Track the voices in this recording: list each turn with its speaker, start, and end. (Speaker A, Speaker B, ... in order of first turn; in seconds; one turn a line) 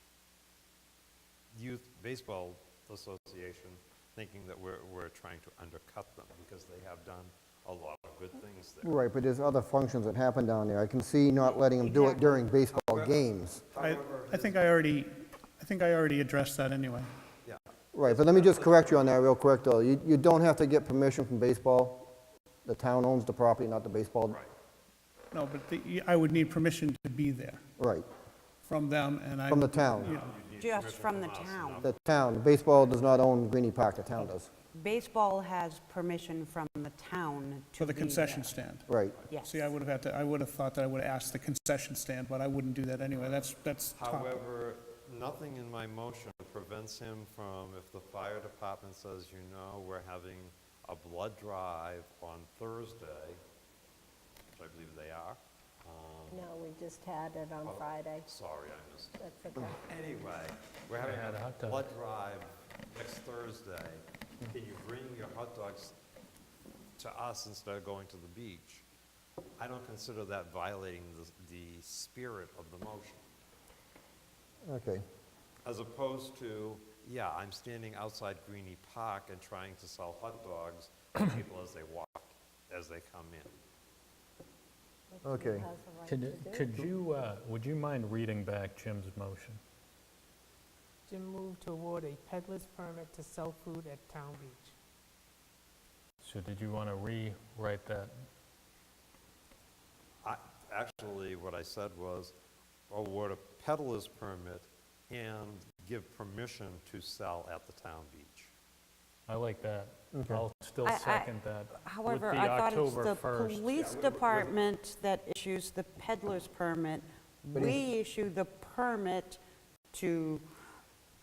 Speaker A: 1.5-8.9
Speaker B: 8.8-13.6
Speaker C: 11.8-12.4
Speaker A: 12.6-13.2
Speaker A: 13.7-14.6
Speaker D: 13.7-17.1
Speaker A: 17.4-19.1
Speaker B: 17.9-22.1
Speaker B: 22.6-24.4
Speaker D: 25.3-27.6
Speaker B: 27.8-28.1
Speaker D: 28.6-30.3
Speaker B: 29.5-30.1
Speaker A: 30.0-31.9
Speaker C: 30.6-31.8
Speaker B: 31.8-34.5
Speaker C: 34.7-38.5
Speaker D: 37.8-38.9
Speaker B: 38.9-39.1
Speaker C: 39.3-39.7
Speaker D: 39.4-44.3
Speaker A: 44.0-53.4
Speaker A: 54.5-56.5
Speaker E: 56.3-58.2
Speaker A: 57.6-59.2
Speaker E: 59.2-59.8
Speaker A: 59.8-66.0
Speaker F: 61.0-61.9
Speaker A: 67.0-68.8
Speaker A: 69.6-73.2
Speaker B: 74.6-75.0
Speaker A: 75.6-83.5
Speaker E: 85.1-86.7
Speaker B: 85.2-85.7
Speaker F: 86.0-89.6
Speaker G: 91.1-94.7
Speaker F: 96.2-98.1
Speaker A: 100.2-102.3
Speaker A: 102.9-108.5
Speaker F: 109.3-113.9
Speaker B: 110.1-110.4
Speaker C: 110.8-119.4
Speaker A: 113.8-114.5
Speaker B: 117.5-117.8
Speaker C: 119.9-120.5